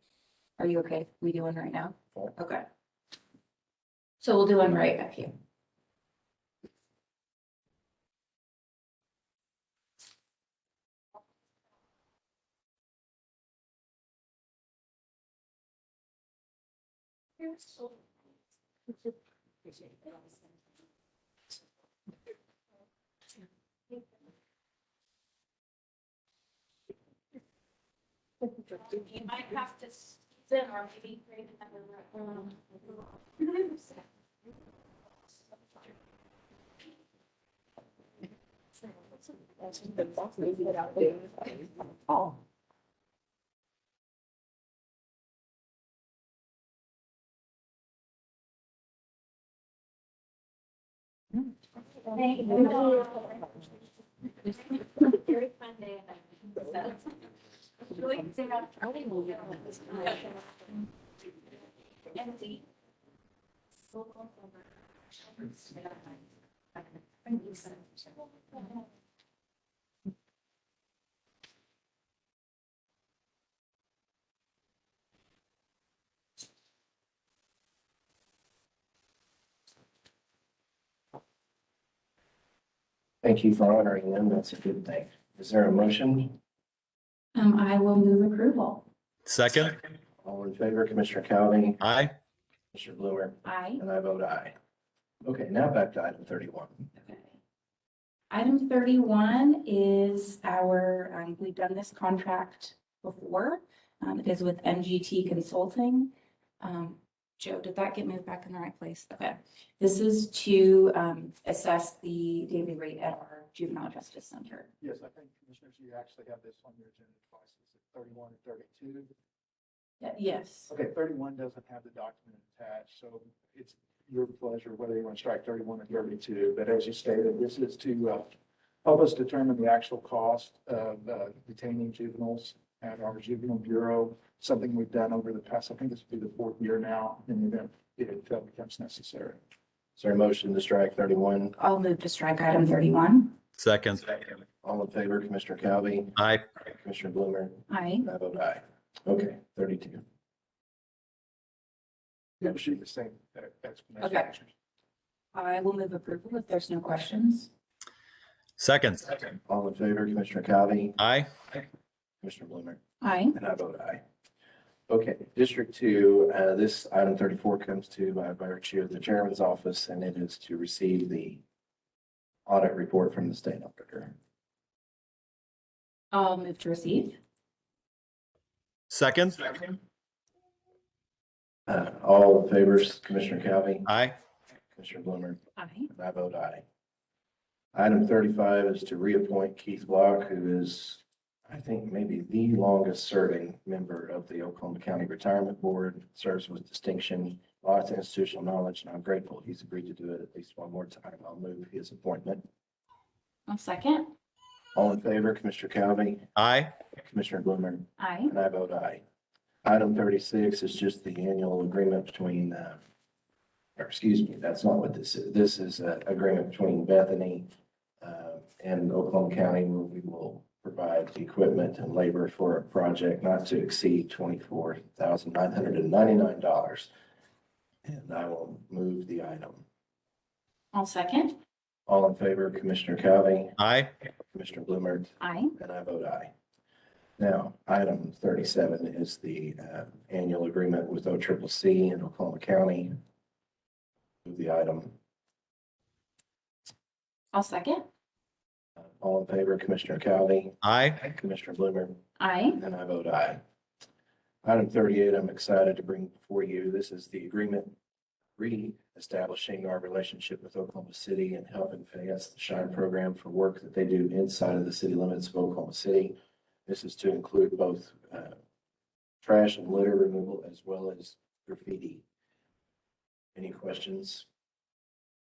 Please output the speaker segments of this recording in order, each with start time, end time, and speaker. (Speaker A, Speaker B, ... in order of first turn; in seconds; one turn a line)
Speaker A: 0.6-2.6
Speaker A: 4.2-5.3
Speaker A: 28.7-32.6
Speaker A: 33.4-33.8
Speaker B: 39.7-41.5
Speaker A: 52.1-53.4
Speaker B: 52.7-53.5
Speaker B: 55.3-56.9
Speaker A: 56.6-57.0
Speaker A: 57.9-60.4
Speaker B: 59.0-59.5
Speaker A: 62.1-62.6
Speaker A: 63.9-64.5
Speaker A: 65.3-66.2
Speaker A: 66.8-68.8
Speaker C: 83.2-86.4
Speaker A: 87.3-88.8
Speaker D: 89.2-89.8
Speaker C: 90.2-91.8
Speaker D: 91.8-92.1
Speaker C: 92.7-94.5
Speaker A: 93.4-93.8
Speaker C: 95.2-96.9
Speaker A: 97.0-97.4
Speaker A: 98.3-114.7
Speaker E: 114.8-119.1
Speaker A: 120.0-120.7
Speaker E: 120.7-128.3
Speaker E: 128.8-139.4
Speaker C: 140.0-141.6
Speaker A: 141.6-143.3
Speaker D: 143.6-144.1
Speaker C: 144.6-150.0
Speaker D: 146.2-146.4
Speaker A: 147.7-148.1
Speaker E: 152.4-154.5
Speaker A: 154.0-154.3
Speaker A: 155.3-157.5
Speaker D: 158.6-159.2
Speaker C: 159.4-161.0
Speaker D: 161.0-161.3
Speaker C: 162.2-162.8
Speaker A: 163.0-163.3
Speaker C: 163.3-164.0
Speaker C: 164.9-171.4
Speaker C: 172.4-174.1
Speaker A: 176.1-177.2
Speaker D: 178.9-179.8
Speaker C: 181.7-183.9
Speaker D: 183.9-184.2
Speaker C: 184.7-186.6
Speaker A: 185.6-185.9
Speaker C: 187.7-202.4
Speaker A: 203.5-204.1
Speaker C: 204.7-206.3
Speaker D: 206.3-206.7
Speaker C: 207.0-209.0
Speaker A: 208.0-208.3
Speaker C: 209.6-212.8
Speaker C: 213.8-217.5
Speaker C: 218.0-226.9
Speaker C: 227.8-229.6
Speaker A: 230.7-231.4
Speaker C: 231.9-233.6
Speaker D: 233.6-233.9
Speaker C: 234.3-236.3
Speaker A: 235.2-235.5
Speaker C: 237.2-242.9
Speaker C: 244.2-244.9
Speaker A: 247.3-247.8
Speaker C: 248.8-252.0
Speaker D: 250.6-251.0
Speaker A: 252.2-252.6
Speaker C: 252.6-253.4
Speaker C: 254.4-257.7
Speaker C: 258.4-268.4
Speaker C: 269.2-272.0
Speaker C: 273.3-274.2